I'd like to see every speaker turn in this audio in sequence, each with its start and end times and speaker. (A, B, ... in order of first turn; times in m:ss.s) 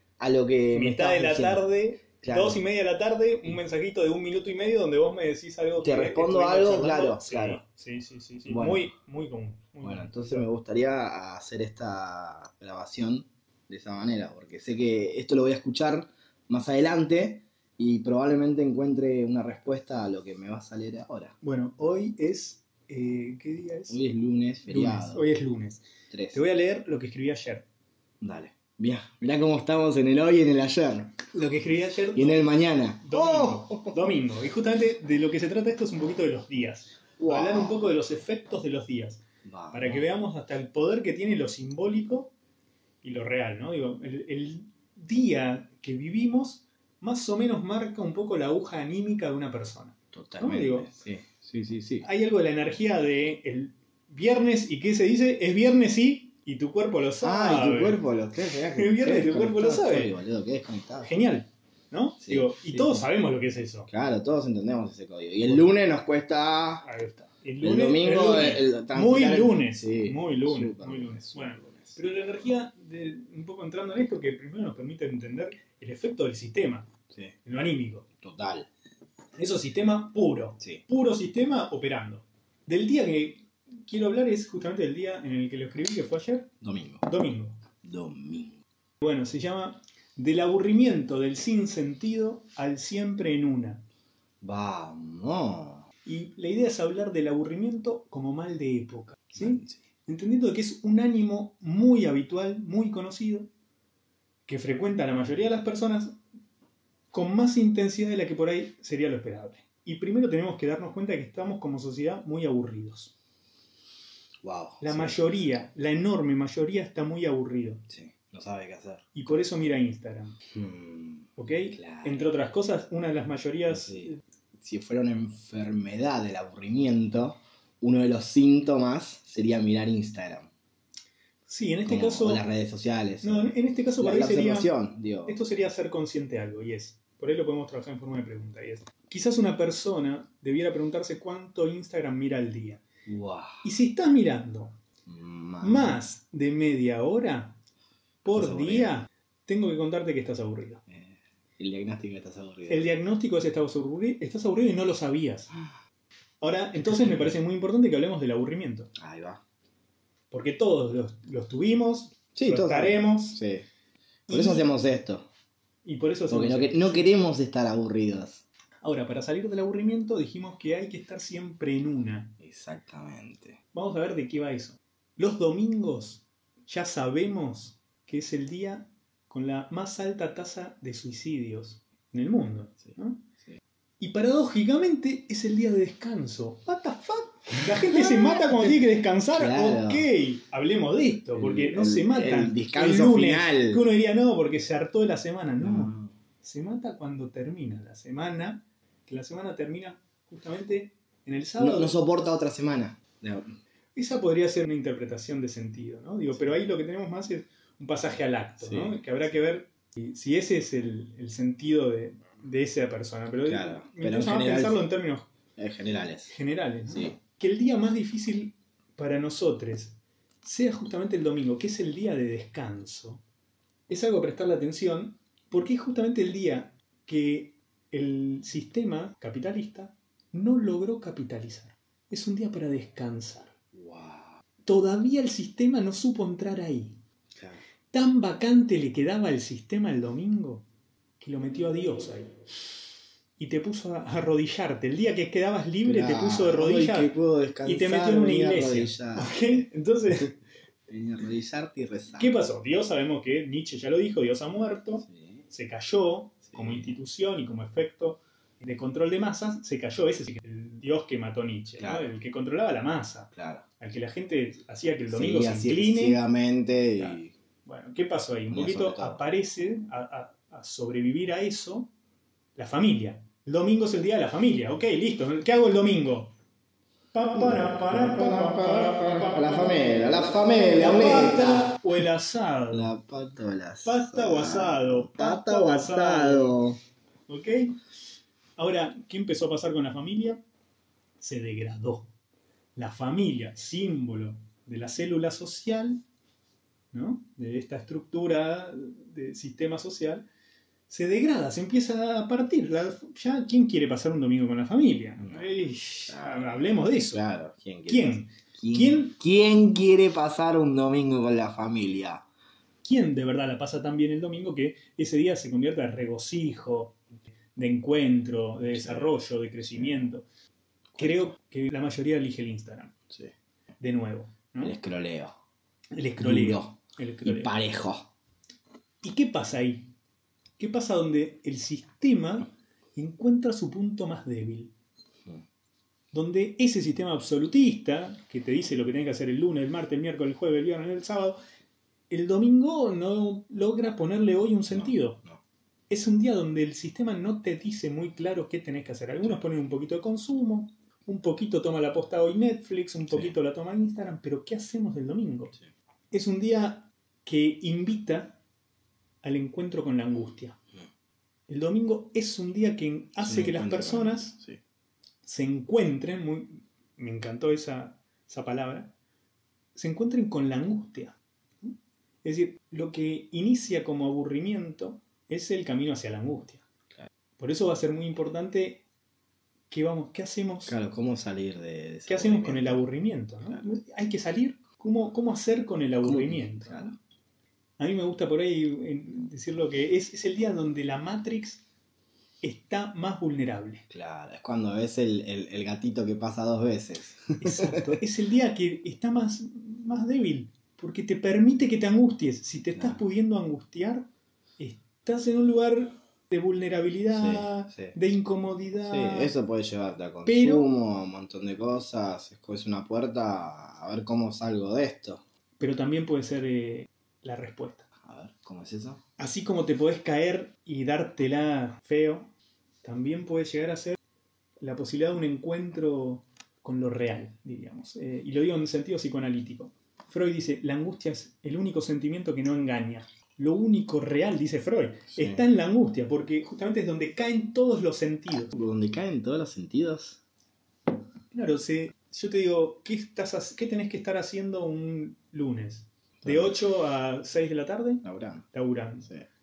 0:00.2-0:01.6 A
0:00.7-0:10.5 B
0:02.2-0:02.6 A
0:05.8-0:07.6 A
0:08.5-0:08.9 A
0:09.8-0:21.3 A
0:21.4-0:24.0 B
0:23.9-0:25.2 A
0:24.7-0:27.6 B
0:26.1-0:26.4 A
0:28.2-0:31.2 A
0:31.3-0:42.3 B
0:32.1-0:34.0 A
0:37.2-0:37.8 A
0:39.4-0:40.0 A
0:43.0-0:50.9 B
0:50.1-0:52.0 A
0:52.0-0:58.0 B
0:57.2-1:01.2 A
0:58.7-1:00.1 B
1:01.0-1:03.9 B
1:02.2-1:03.0 A
1:03.9-1:06.8 A
1:06.8-1:16.9 B
1:07.6-1:12.0 A
1:17.4-1:18.1 B
1:18.2-1:18.7 A
1:19.4-1:26.5 B
1:26.6-1:27.0 A
1:27.0-1:27.6 B
1:27.8-1:28.6 A
1:29.0-1:33.8 B
1:34.4-1:35.8 A
1:36.0-1:43.5 B
1:39.3-1:39.8 A
1:44.5-1:46.2 B
1:47.1-1:53.1 B
1:54.4-1:55.2 A
1:54.8-1:57.8 B
1:57.9-1:59.5 A
1:59.1-2:00.4 B
2:00.5-2:02.2 A
2:01.4-2:04.2 B
2:03.7-2:10.5 A
2:11.4-2:12.4 B
2:11.8-2:15.4 A
2:13.2-2:14.7 B
2:15.2-2:22.8 B
2:23.0-2:23.6 A
2:23.6-2:24.8 B
2:25.1-2:26.0 A
2:25.6-2:27.6 B
2:28.2-2:30.8 B
2:28.3-2:28.9 A
2:30.9-2:32.9 A
2:32.7-2:35.5 B
2:36.4-2:38.9 B
2:36.8-2:37.3 A
2:39.0-2:39.4 A
2:40.3-2:43.4 B
2:42.3-2:43.6 A
2:44.3-2:44.7 B
2:44.3-2:45.3 A
2:45.8-2:47.1 B
2:46.3-2:48.4 A
2:48.8-2:52.4 B
2:52.4-2:53.6 A
2:53.7-3:03.2 B
3:04.0-3:21.9 B
3:07.6-3:08.8 A
3:09.3-3:10.0 A
3:11.3-3:13.8 A
3:15.6-3:16.1 A
3:21.6-3:23.6 A
3:24.0-3:35.3 B
3:28.6-3:29.3 A
3:33.4-3:34.8 A
3:35.6-3:36.3 A
3:36.3-3:43.2 B
3:36.9-3:37.2 A
3:43.9-3:53.5 B
3:53.7-3:54.3 A
3:54.6-3:57.0 B
3:57.3-3:57.6 A
3:57.9-4:00.6 B
4:01.2-4:02.4 B
4:03.4-4:07.1 B
4:05.8-4:10.3 A
4:07.6-4:10.3 B
4:10.9-4:12.3 A
4:12.2-4:26.2 B
4:15.1-4:15.4 A
4:16.5-4:17.0 A
4:21.8-4:22.1 A
4:23.3-4:23.6 A
4:25.1-4:27.3 A
4:27.0-4:31.9 B
4:28.5-4:29.2 A
4:32.6-4:36.3 B
4:37.1-4:40.1 B
4:37.4-4:41.7 A
4:40.7-4:42.9 B
4:42.7-4:46.8 A
4:43.8-4:46.6 B
4:47.3-4:47.8 B
4:48.6-4:50.4 B
4:51.2-4:52.1 B
4:52.8-4:56.0 B
4:56.9-5:00.2 B
5:00.9-5:07.2 B
5:05.2-5:05.6 A
5:06.1-5:12.2 A
5:07.9-5:09.2 B
5:12.8-5:17.0 B
5:17.5-5:20.2 B
5:18.7-5:19.2 A
5:19.7-5:20.1 A
5:20.9-5:21.3 A
5:21.0-5:22.9 B
5:23.8-5:24.8 B
5:24.6-5:25.3 A
5:25.9-5:27.5 B
5:26.2-5:28.1 A
5:29.0-5:29.9 B
5:30.6-5:34.7 B
5:36.1-5:41.4 B
5:42.1-5:45.2 B
5:44.7-5:45.4 A
5:45.9-5:55.5 B
5:53.1-5:53.3 A
5:56.1-5:58.4 B
5:59.2-6:00.6 B
6:01.5-6:04.4 B
6:03.2-6:04.6 A
6:05.2-6:08.9 B
6:09.7-6:16.6 B
6:17.4-6:18.8 B
6:19.7-6:20.7 B
6:20.7-6:22.8 A
6:22.1-6:26.9 B
6:26.0-6:27.0 A
6:27.8-6:31.6 B
6:32.4-6:33.8 B
6:33.9-6:38.0 A
6:37.4-6:49.3 B
6:42.7-6:43.0 A
6:47.1-6:48.0 A
6:48.8-6:55.2 A
6:50.2-6:50.7 B
6:55.6-6:57.9 B
6:58.0-6:59.0 A
6:59.2-7:02.3 B
7:02.8-7:04.0 B
7:04.6-7:18.5 B
7:15.1-7:15.4 A
7:18.5-7:20.2 A
7:21.3-7:29.1 B
7:26.2-7:26.6 A
7:28.0-7:28.4 A